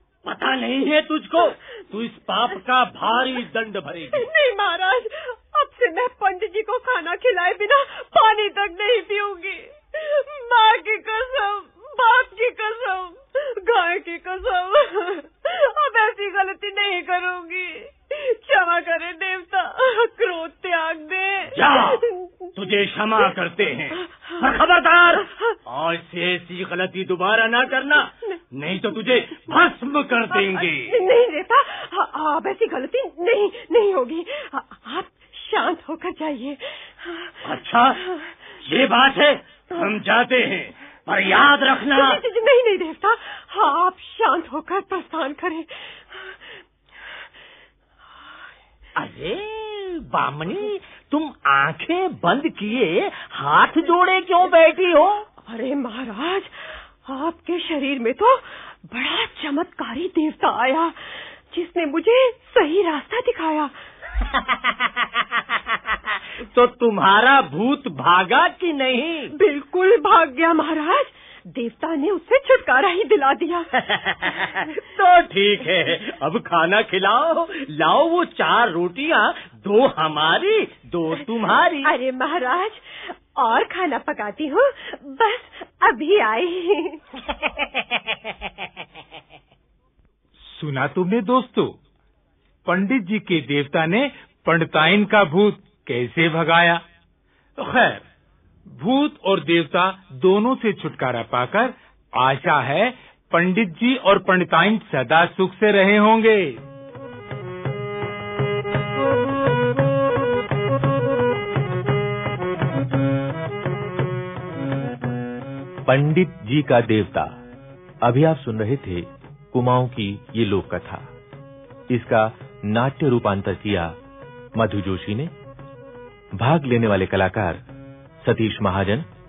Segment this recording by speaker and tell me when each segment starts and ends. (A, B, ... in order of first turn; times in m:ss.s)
0:00.2-0:04.3 A
0:04.1-0:22.5 B
0:21.5-0:31.0 A
0:30.3-0:37.4 B
0:37.4-0:38.0 A
0:38.0-0:38.3 B
0:38.6-0:42.2 A
0:41.9-0:46.6 B
0:49.0-0:55.3 A
0:55.4-1:03.7 B
1:04.4-1:04.7 A
1:06.4-1:09.3 A
1:09.4-1:13.7 B
1:13.8-1:21.9 A
1:21.8-1:27.0 B
1:30.5-1:31.8 C
1:32.7-1:36.8 C
1:37.6-1:38.0 C
1:38.8-1:46.6 C
1:55.9-1:57.3 D
1:58.0-2:01.0 D
2:01.9-2:03.9 D
2:04.6-2:05.3 D
2:06.4-2:07.6 D
2:08.2-2:09.0 D